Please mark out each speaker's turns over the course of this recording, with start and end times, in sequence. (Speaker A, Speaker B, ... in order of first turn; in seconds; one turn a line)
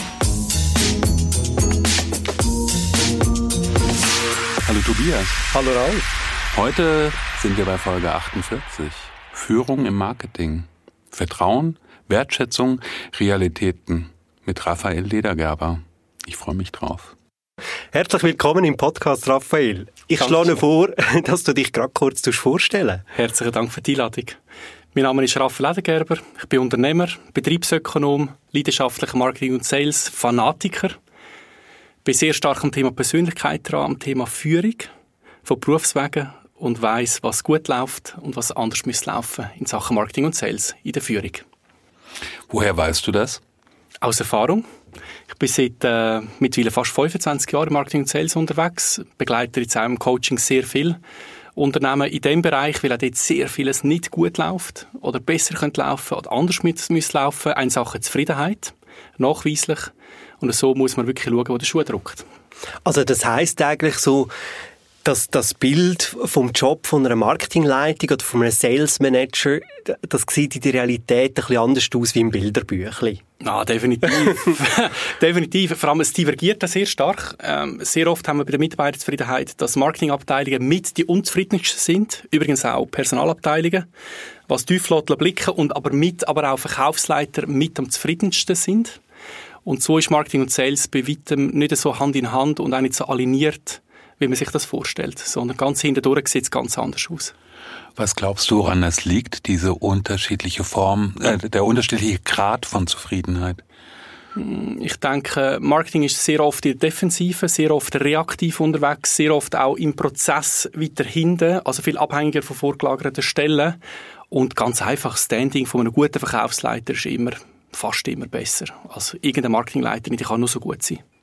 Speaker A: 4.6-5.4
Speaker B: 5.5-6.0
Speaker A: 6.5-17.1
Speaker B: 17.9-23.0
Speaker C: 20.2-20.5
Speaker C: 23.1-24.4
Speaker C: 24.9-31.0
Speaker C: 32.0-34.9
Speaker C: 35.4-41.4
Speaker A: 42.5-43.4
Speaker C: 44.0-44.6
Speaker C: 45.3-51.0
Speaker C: 51.5-62.2
Speaker B: 62.8-64.3
Speaker B: 65.0-73.2
Speaker C: 73.4-83.8
Speaker C: 84.5-89.0
Speaker C: 89.6-97.3
Speaker A: 98.0-103.6
Speaker C: 104.3-113.8
Speaker C: 114.3-121.0